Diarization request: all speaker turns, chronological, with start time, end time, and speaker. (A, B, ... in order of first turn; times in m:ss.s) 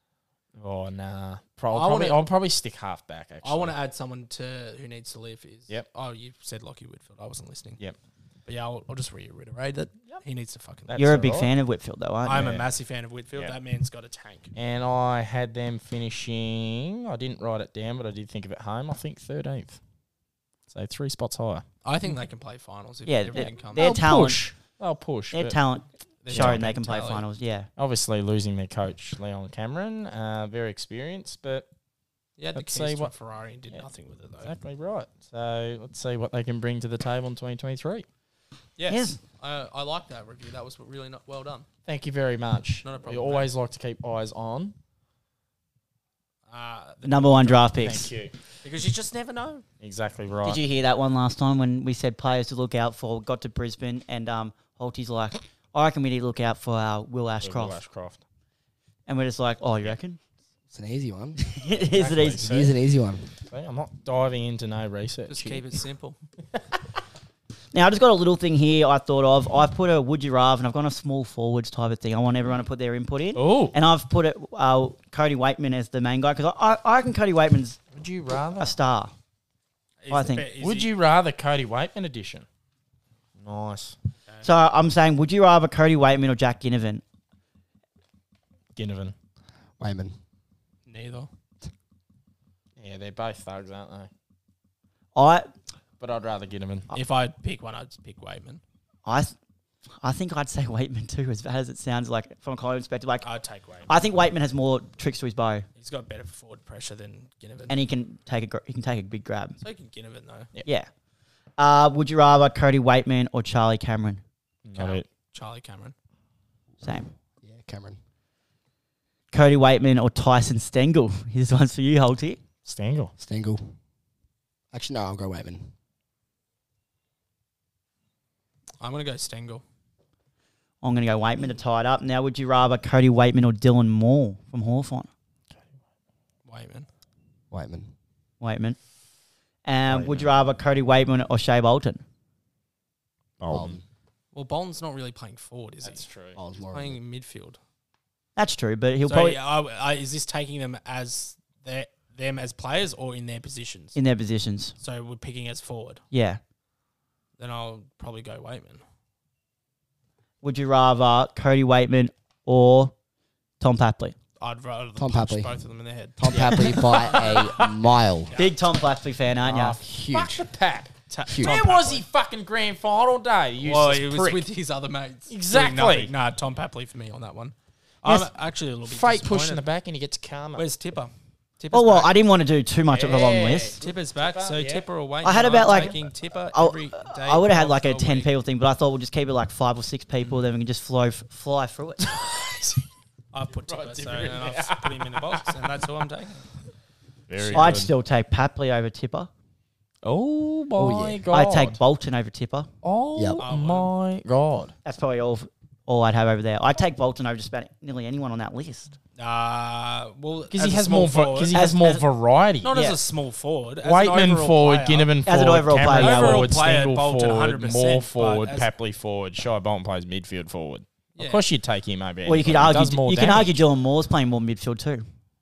0:00.6-0:03.7 A
0:01.7-0:02.2 B
0:03.4-0:07.8 B
0:08.4-0:11.0 B
0:10.9-0:11.5 A
0:11.0-0:12.6 C
0:12.2-0:14.5 B
0:14.5-0:19.8 A
0:20.7-0:21.6 A
0:21.8-0:23.9 B
0:23.0-0:24.4 C
0:23.4-0:25.6 A
0:25.3-0:27.7 C
0:26.2-0:27.2 B
0:26.3-0:26.6 A
0:27.8-0:31.7 A
0:32.4-0:34.5 B
0:32.5-0:33.1 A
0:34.4-0:38.0 A
0:38.8-0:41.6 B
0:38.9-0:39.2 C
0:41.9-0:44.8 A
0:42.8-0:43.5 B
0:46.5-0:47.7 B
0:47.0-0:48.1 C
0:47.8-0:48.3 A
0:48.6-0:49.6 B
0:49.8-0:50.6 A
0:50.4-0:57.8 C
0:57.4-0:58.2 A
0:59.0-1:00.2 C
1:00.7-1:01.4 D
1:01.4-1:02.4 C
1:01.7-1:02.7 A
1:02.4-1:03.3 D
1:03.5-1:05.6 A
1:05.3-1:06.2 B
1:07.7-1:17.8 C
1:13.3-1:13.8 A
1:17.9-1:18.7 A
1:18.6-1:19.1 C
1:20.0-1:20.9 B
1:20.1-1:20.5 C
1:20.6-1:22.4 A
1:23.4-1:23.9 A
1:24.4-1:27.0 C
1:28.8-1:29.1 A
1:29.8-1:30.2 D
1:30.9-1:31.3 B
1:32.8-1:34.1 A
1:35.1-1:35.5 C
1:36.0-1:36.9 A
1:36.9-1:38.6 B
1:39.0-1:39.3 C
1:40.0-1:43.2 C
1:43.2-1:43.9 B
1:43.9-1:45.6 C
1:45.8-1:47.8 B
1:47.7-1:49.6 C
1:49.6-1:50.5 B
1:51.6-1:54.2 C
1:54.6-1:55.0 A
1:54.7-1:55.9 B
1:56.8-1:57.1 C
1:57.4-1:58.0 D
1:59.3-2:02.4 C
2:02.6-2:03.1 A
2:03.2-2:03.7 D
2:04.7-2:05.7 D
2:08.8-2:09.6 B
2:10.8-2:15.1 C
2:16.4-2:16.9 B
2:17.5-2:17.9 D
2:18.4-2:18.8 C
2:19.6-2:22.0 C
2:19.9-2:20.3 A
2:23.4-2:23.8 A
2:23.5-2:23.8 D
2:24.3-2:26.0 B
2:25.8-2:26.4 A
2:26.3-2:27.0 D
2:26.7-2:27.6 B
2:28.4-2:29.4 C
2:29.0-2:34.0 B
2:33.9-2:34.7 C
2:34.8-2:36.0 B
2:36.1-2:36.4 C
2:37.4-2:38.8 B
2:40.4-2:42.9 C
2:43.6-2:44.2 C
2:44.4-2:47.7 B
2:45.0-2:45.5 D
2:46.2-2:48.3 D
2:46.3-2:46.7 A
2:48.2-2:48.6 B
2:48.4-2:49.8 C
2:49.5-2:54.4 A
2:49.5-2:50.4 D
2:51.1-2:52.0 B
2:51.3-2:51.6 D
2:53.6-2:59.6 B
2:55.3-2:56.1 A
2:58.8-3:00.6 A
3:00.6-3:02.1 B
3:01.7-3:03.8 C
3:02.9-3:04.8 A
3:03.8-3:08.3 B
3:05.2-3:06.0 C
3:05.4-3:06.0 A
3:06.5-3:12.1 C
3:12.0-3:12.8 A
3:13.3-3:16.4 B
3:13.7-3:15.8 A
3:17.3-3:17.9 A
3:17.5-3:17.7 B
3:17.5-3:19.3 C
3:20.0-3:21.8 A
3:20.8-3:21.2 D
3:21.3-3:22.7 C
3:22.8-3:24.7 A
3:23.2-3:23.4 D
3:23.4-3:23.9 B
3:24.8-3:28.9 C
3:29.2-3:31.6 B
3:30.5-3:32.8 A
3:31.5-3:32.0 C
3:32.6-3:35.1 B
3:33.8-3:43.6 A
3:35.2-3:36.5 C
3:35.9-3:38.7 B
3:41.2-3:41.4 B
3:42.2-3:45.0 C